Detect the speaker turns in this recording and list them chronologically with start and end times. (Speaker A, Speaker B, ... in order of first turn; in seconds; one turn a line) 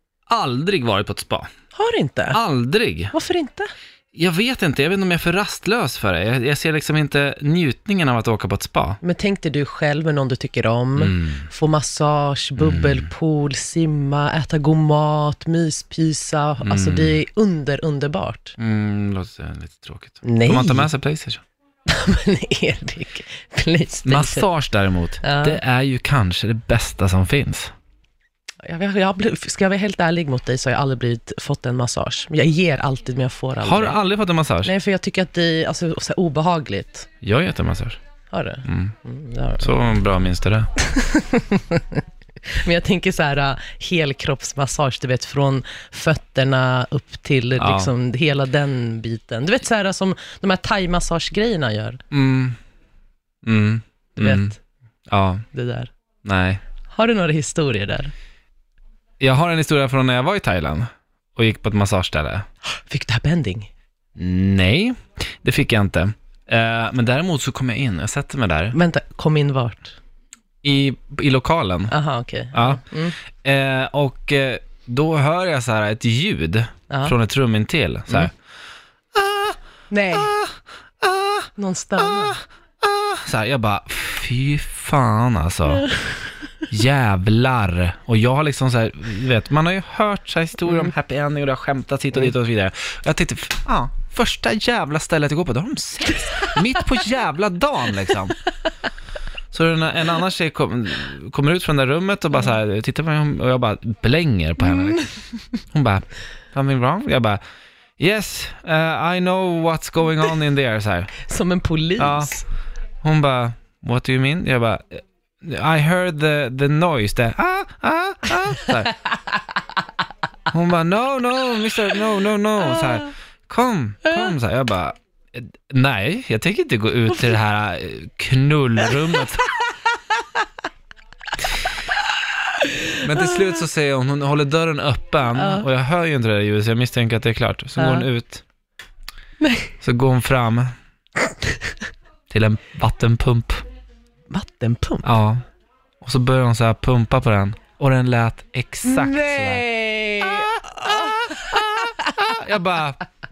Speaker A: 0.3-1.5
Speaker B: 1.7-2.4
Speaker A: 2.3-3.1
Speaker B: 3.1-3.7
Speaker A: 4.1-9.0
Speaker B: 9.0-18.6
Speaker A: 11.0-11.5
Speaker A: 12.6-13.1
Speaker A: 16.6-17.2
Speaker A: 18.6-21.4
Speaker B: 20.2-20.9
Speaker B: 21.9-24.5
Speaker A: 24.0-27.7
Speaker B: 25.2-25.6
Speaker B: 28.6-34.0
Speaker A: 33.6-34.7
Speaker B: 34.6-37.1
Speaker A: 37.2-38.0
Speaker B: 38.3-39.8
Speaker A: 38.6-39.0
Speaker A: 39.6-40.7
Speaker B: 40.8-42.0
Speaker B: 42.6-52.0
Speaker A: 47.6-47.9
Speaker A: 52.1-52.6
Speaker A: 53.4-54.5
Speaker B: 54.2-54.6
Speaker A: 55.1-55.4
Speaker B: 55.5-55.9
Speaker A: 56.2-56.6
Speaker B: 56.9-58.1
Speaker A: 59.2-62.5
Speaker B: 62.8-63.7
Speaker A: 64.2-68.8
Speaker B: 68.7-70.0
Speaker A: 70.6-71.9
Speaker B: 71.9-73.2
Speaker A: 72.5-78.3
Speaker A: 79.2-79.5
Speaker B: 79.9-80.3
Speaker A: 80.2-81.5
Speaker B: 81.6-82.4
Speaker A: 82.0-82.3
Speaker A: 82.8-85.9
Speaker B: 85.9-86.5
Speaker A: 86.7-98.4
Speaker A: 99.5-105.1
Speaker A: 105.7-107.4
Speaker A: 108.0-111.2
Speaker B: 111.2-112.4
Speaker A: 112.0-112.4
Speaker A: 113.0-118.9
Speaker A: 120.5-129.5
Speaker B: 132.9-133.3
Speaker A: 133.0-138.4
Speaker B: 135.3-135.7
Speaker B: 137.8-138.1
Speaker B: 139.4-139.7
Speaker A: 139.8-140.7
Speaker B: 141.2-141.8
Speaker A: 142.3-143.6
Speaker B: 144.3-145.1
Speaker A: 145.0-145.4
Speaker A: 146.0-149.6
Speaker B: 148.8-152.3
Speaker A: 150.2-153.0